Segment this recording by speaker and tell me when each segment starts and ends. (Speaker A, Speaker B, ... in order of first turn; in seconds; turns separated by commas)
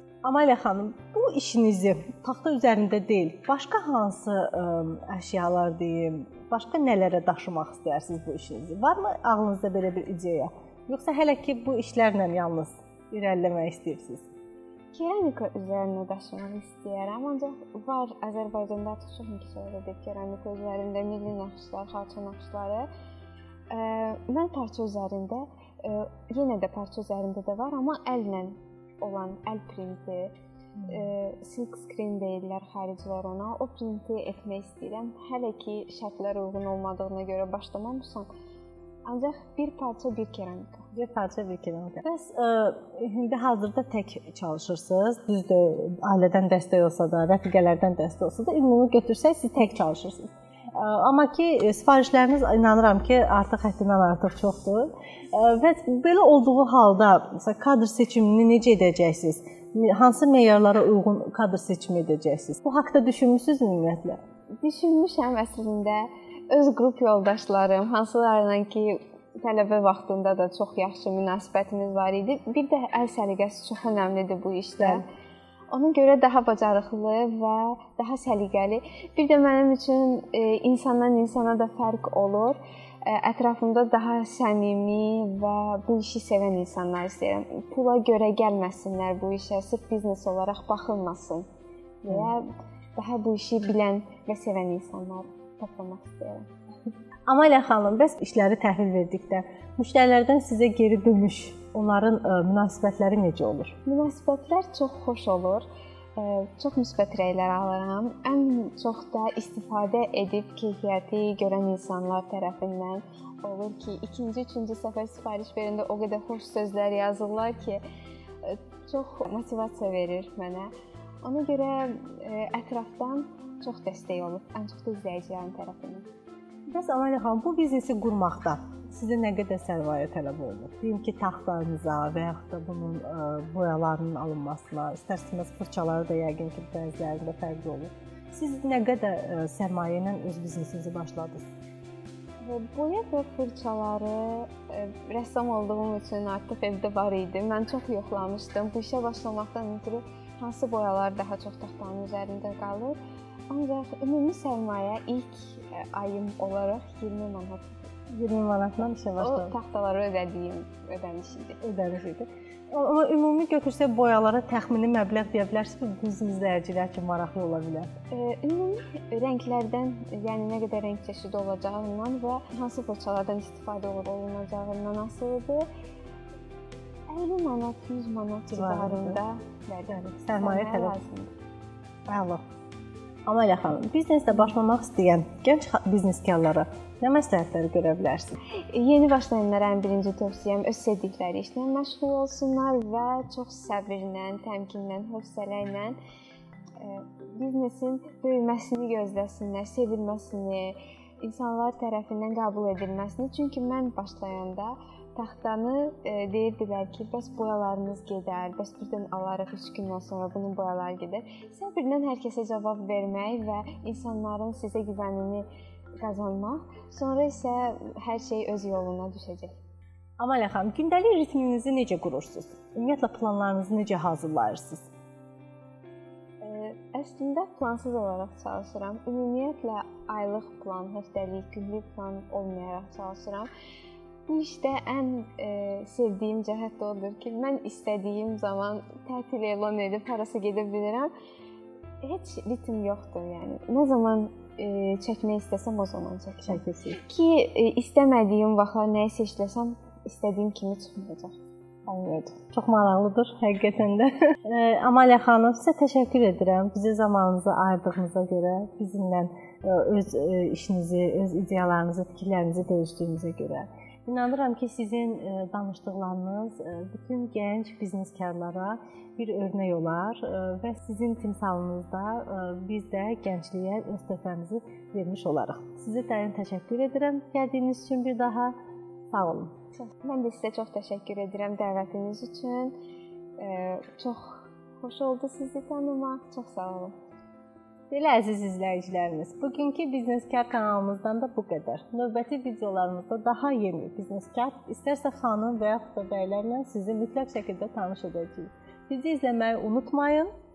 Speaker A: 0.2-14.3, Speaker B: 14.9-22.9, Speaker B: 23.7-30.4, Speaker B: 30.9-38.3, Speaker B: 39.1-40.9, Speaker A: 40.9-64.2, Speaker B: 64.6-75.0, Speaker B: 75.7-91.5, Speaker B: 92.0-96.5, Speaker A: 97.3-103.8, Speaker B: 103.9-105.7, Speaker B: 106.2-117.8, Speaker B: 118.4-120.7, Speaker B: 121.2-126.1, Speaker A: 126.7-141.5, Speaker B: 142.4-153.0, Speaker B: 153.5-157.9, Speaker A: 158.1-159.6, Speaker B: 159.2-161.6, Speaker A: 161.6-167.9, Speaker B: 168.1-175.7, Speaker B: 177.1-181.3, Speaker A: 178.5-179.2, Speaker A: 179.9-180.9, Speaker A: 182.1-182.4, Speaker A: 183.3-188.4, Speaker B: 188.7-195.9, Speaker B: 196.8-215.4, Speaker B: 216.0-219.6, Speaker A: 220.2-224.9, Speaker B: 226.4-233.5, Speaker B: 234.3-241.1, Speaker B: 242.0-251.4, Speaker A: 246.4-247.0, Speaker A: 251.9-278.5, Speaker A: 279.1-279.5, Speaker B: 279.8-282.7, Speaker B: 283.4-286.9, Speaker A: 287.9-300.3